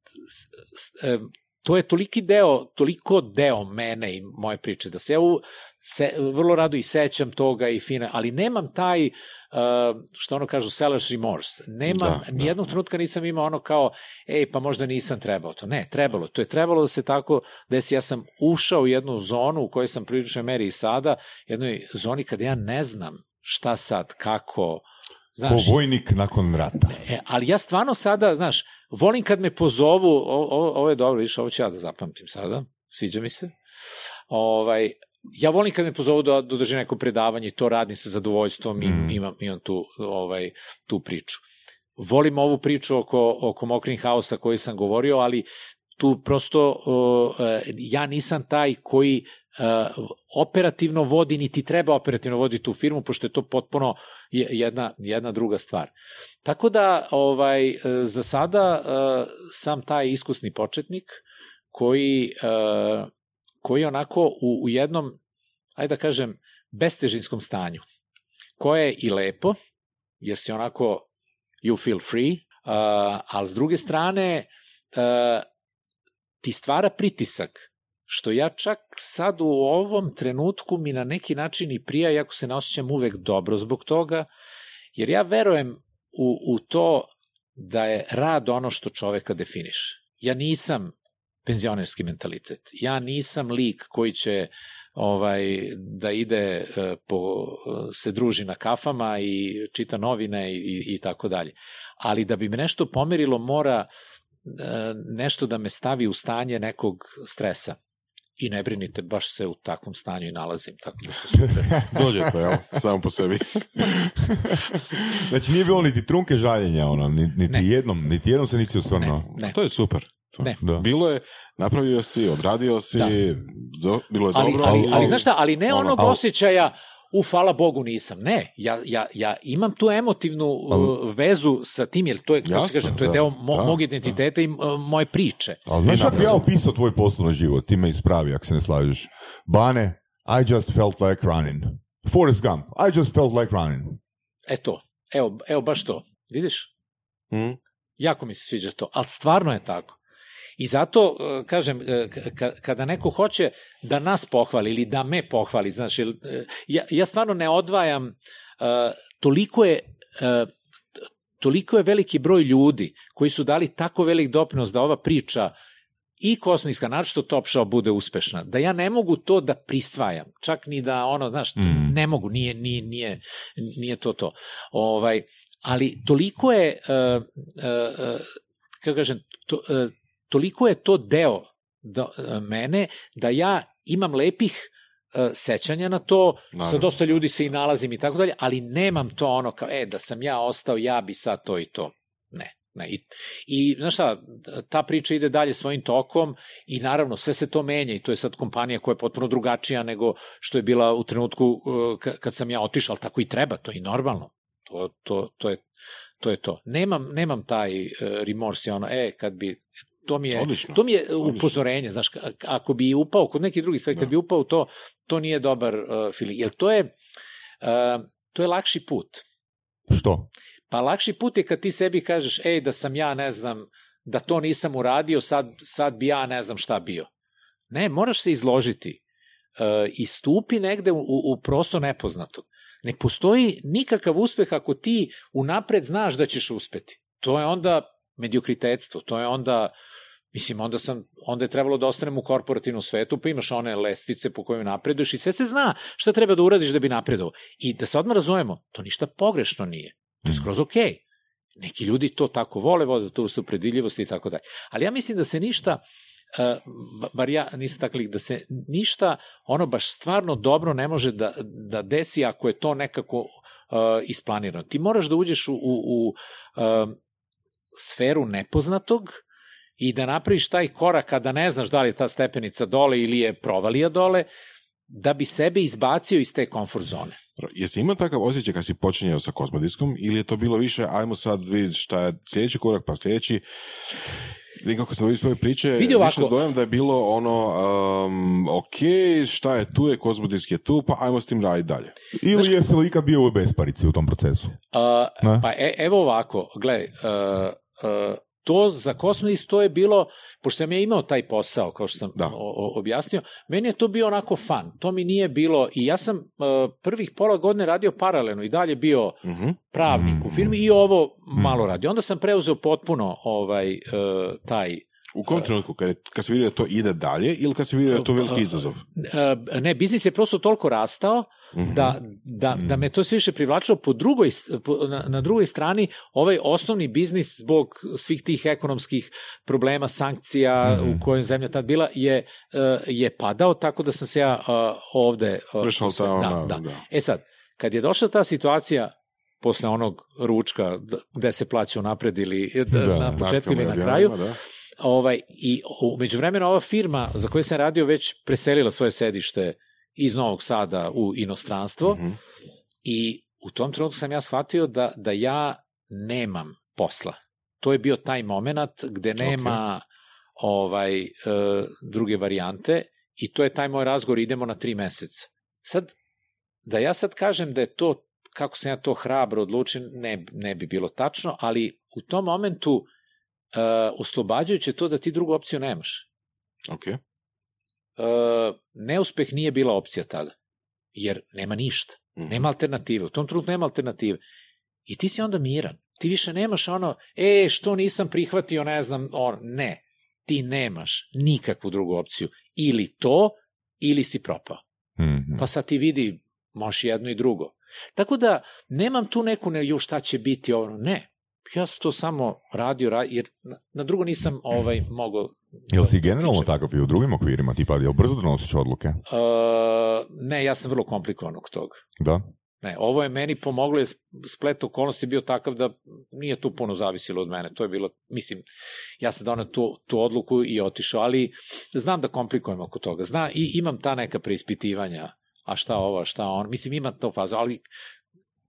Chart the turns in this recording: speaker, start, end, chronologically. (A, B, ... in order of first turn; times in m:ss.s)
0:00.2-0:25.8 A
0:11.9-0:12.5 B
0:25.5-0:27.0 C
0:27.0-0:33.5 A
0:34.3-0:41.4 A
0:38.8-0:39.2 C
0:42.0-0:45.5 A
0:46.0-0:55.9 A
0:56.4-1:01.2 A
1:01.7-1:03.1 A
1:03.6-1:05.2 A
1:05.8-1:07.8 A
1:08.6-1:09.6 A
1:10.2-1:11.1 A
1:11.6-1:15.4 A
1:16.4-1:24.3 A
1:25.0-1:30.9 A
1:31.4-1:43.9 A
1:44.4-1:47.8 A
1:48.4-1:51.9 A
1:51.7-1:52.0 C
1:51.9-1:54.2 B
1:54.3-1:54.6 C
1:54.9-1:55.2 B
1:55.2-1:59.2 C
1:59.0-1:59.6 A
1:59.3-2:06.0 B
2:00.6-2:00.8 C
2:04.3-2:16.3 A
2:04.6-2:05.2 C
2:12.4-2:13.8 B
2:15.7-2:24.0 C
2:15.8-2:16.5 B
2:24.5-2:26.7 A
2:27.3-2:27.6 B
2:28.0-2:30.0 A
2:30.6-2:40.5 A
2:41.4-2:45.5 A
2:46.2-3:25.6 A
2:51.6-2:52.0 C
3:06.5-3:06.9 B
3:26.2-3:36.9 A
3:30.3-3:31.6 B
3:37.6-3:39.2 A
3:39.9-3:40.3 C
3:40.7-3:47.1 A
3:47.7-3:49.0 A
3:49.6-3:59.7 A
4:00.3-4:11.0 A
4:11.6-4:15.8 A
4:16.3-4:27.0 A
4:27.7-4:29.2 A
4:29.8-4:34.3 A
4:34.9-4:37.2 A
4:37.4-4:52.0 B
4:45.8-4:46.4 A
4:52.1-4:54.6 C
4:54.7-5:15.5 A
4:55.2-4:55.5 C
5:09.2-5:09.6 B
5:09.9-5:10.5 C
5:15.2-5:18.8 B
5:17.9-5:44.2 A
5:21.6-5:22.0 B
5:30.6-5:31.0 C
5:35.6-5:36.8 B
5:42.7-5:43.2 C
5:43.2-5:44.4 B
5:44.8-5:52.0 A
5:51.9-5:52.2 B
5:52.8-5:59.8 A
5:59.2-5:59.6 B
6:00.4-6:05.9 A
6:06.6-6:12.9 A
6:13.5-6:16.1 A
6:16.7-6:17.0 B
6:18.0-6:20.3 A
6:20.9-6:24.2 A
6:22.2-6:22.4 B
6:24.9-6:34.6 A
6:35.0-6:35.4 C
6:35.4-6:46.5 A
6:45.7-6:49.0 C
6:49.1-6:51.8 A
6:52.0-6:52.3 C
6:52.6-6:58.4 A
6:59.0-7:07.6 A